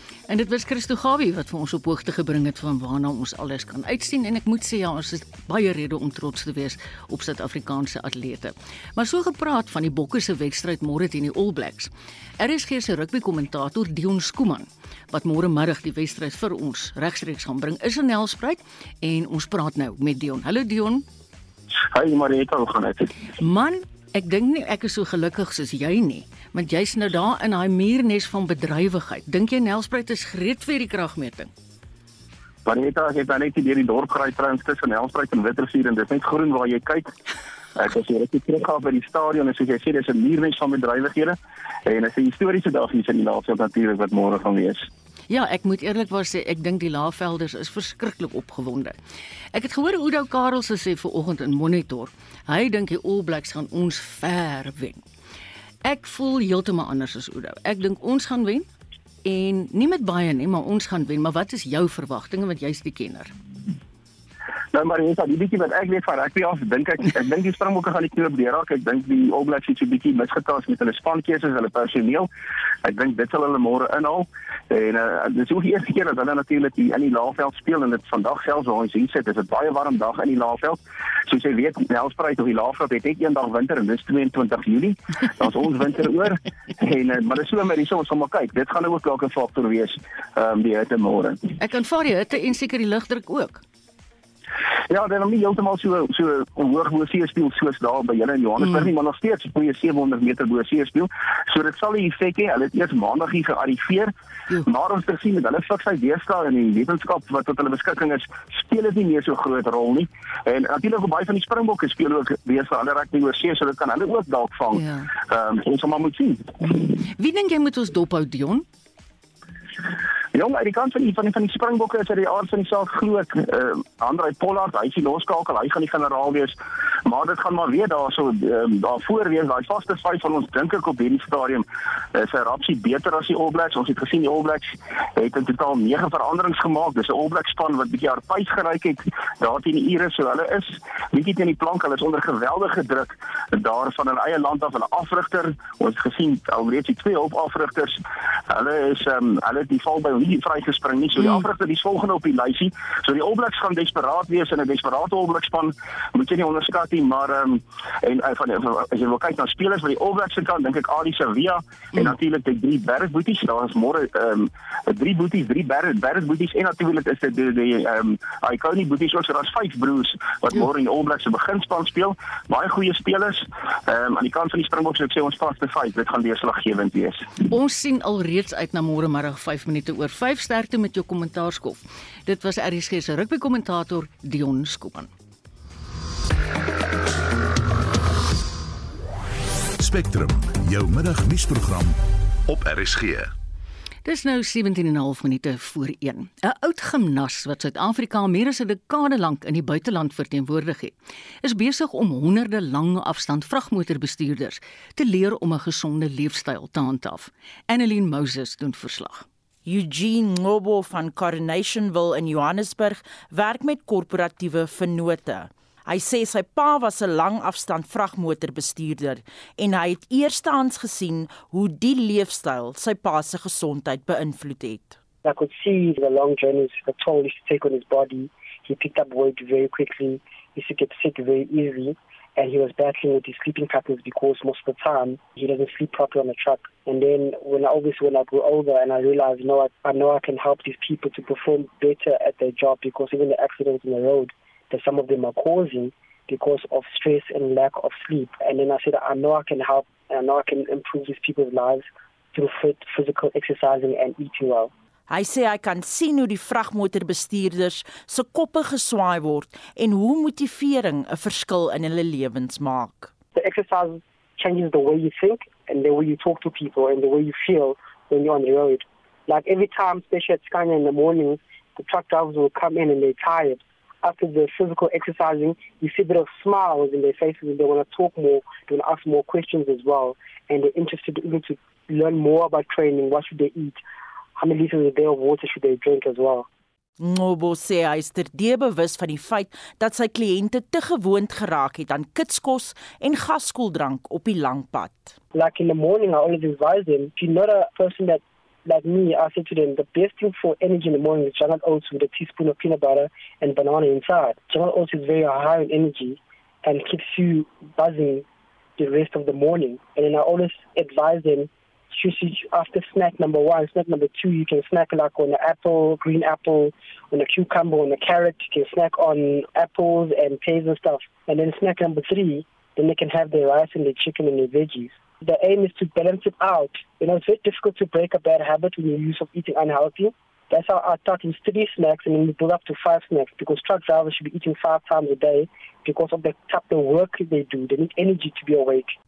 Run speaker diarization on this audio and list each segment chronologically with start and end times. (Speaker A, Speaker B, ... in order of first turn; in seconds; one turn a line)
Speaker A: 0.3-21.1
Speaker B: 21.9-23.1
Speaker A: 23.4-31.5
Speaker B: 32.7-37.1
Speaker B: 37.8-41.4
Speaker B: 41.9-44.9
Speaker A: 45.3-49.0
Speaker A: 49.5-55.0
Speaker A: 55.9-58.7
Speaker A: 59.2-63.3
Speaker B: 64.7-72.3
Speaker B: 72.8-91.4
Speaker A: 91.6-93.6
Speaker B: 94.9-104.1
Speaker A: 98.6-98.9
Speaker B: 104.7-116.5
Speaker A: 114.7-115.1
Speaker A: 116.6-118.7
Speaker B: 120.3-148.0
Speaker B: 148.5-177.2
Speaker A: 177.4-185.1
Speaker C: 189.8-193.3
Speaker A: 194.1-209.2
Speaker D: 209.7-225.0
Speaker E: 225.2-254.7
Speaker D: 255.1-263.1
Speaker E: 263.4-283.8
Speaker E: 284.4-286.5
Speaker D: 287.0-295.1
Speaker E: 295.3-308.2
Speaker E: 308.8-339.0